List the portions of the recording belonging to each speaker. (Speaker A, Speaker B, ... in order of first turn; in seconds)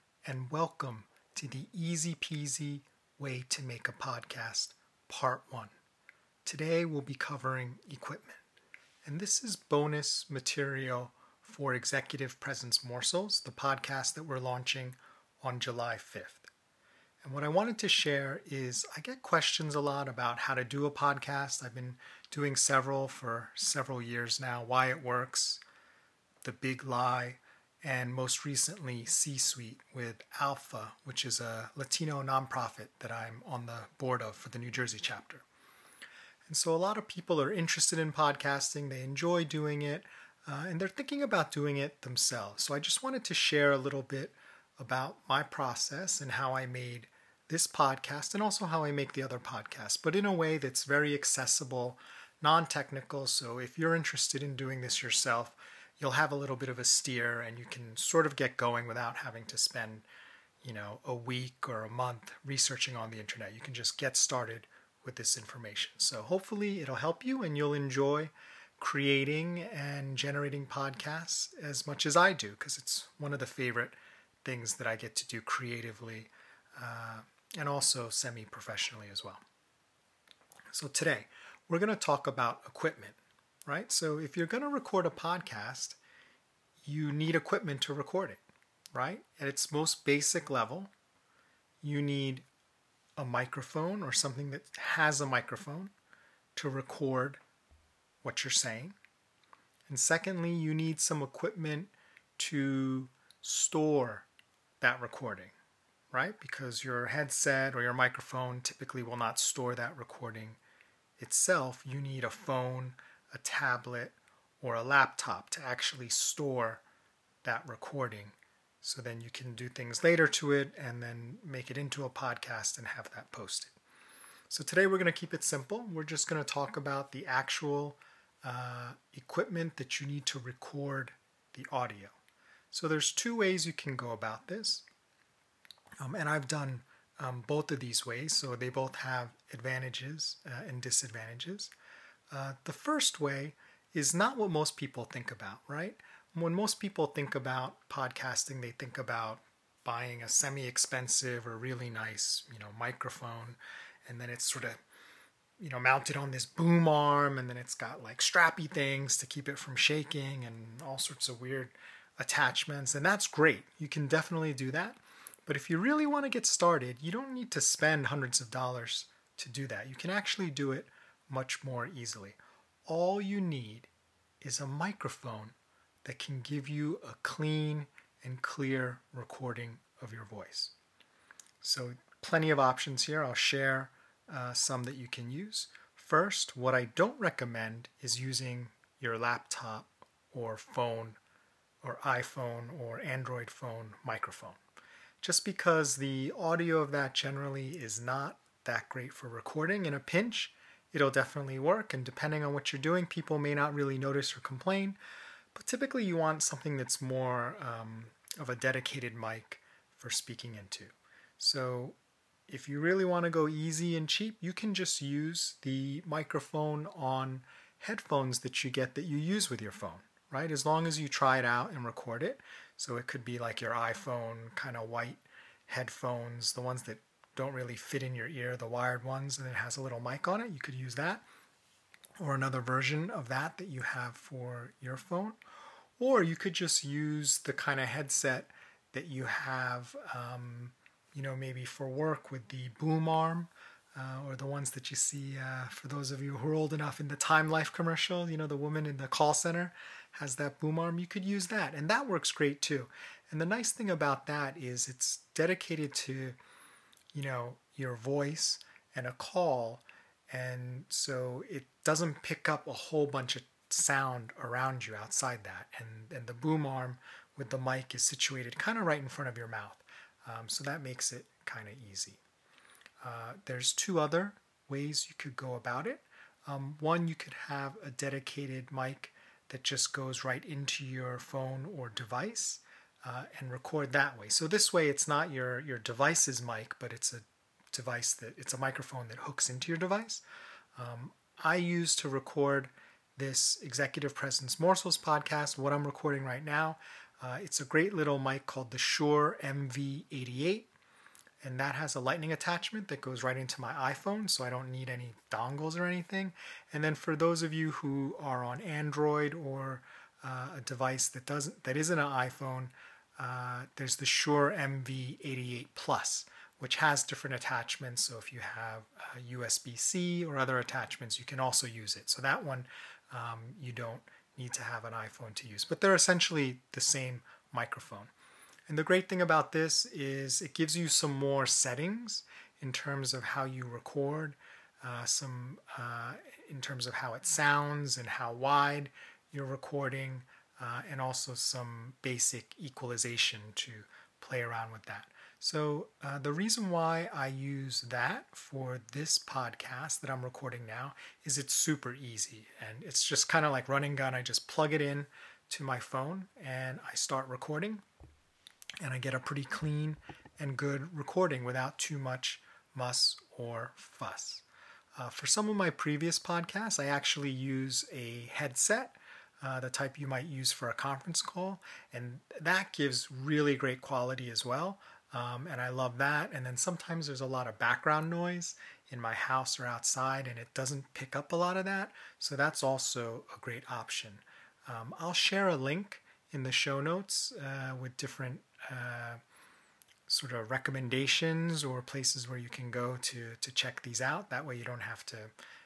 Speaker A: 0.2-5.7, 6.5-8.4, 9.1-16.5, 17.2-25.6, 26.4-35.4, 36.5-60.1, 60.6-79.4, 80.7-86.0, 86.8-88.4, 88.9-90.9, 91.8-92.5, 93.2-95.9, 96.6-97.4, 98.2-99.0, 99.9-104.3, 104.8-105.5, 106.1-110.6, 111.2-116.8, 117.4-123.8, 124.5-132.2, 132.7-134.8, 136.0-141.7, 142.3-154.8, 155.6-173.9, 174.4-180.7, 181.6-191.2, 191.8-194.6, 195.2-205.0, 205.6-212.0, 212.5-231.2, 232.2-235.4, 236.0-256.4, 257.1-272.2, 273.0-290.2, 290.8-300.7, 301.4-328.1, 328.7-357.8, 358.8-364.4, 365.0-389.2, 390.1-395.3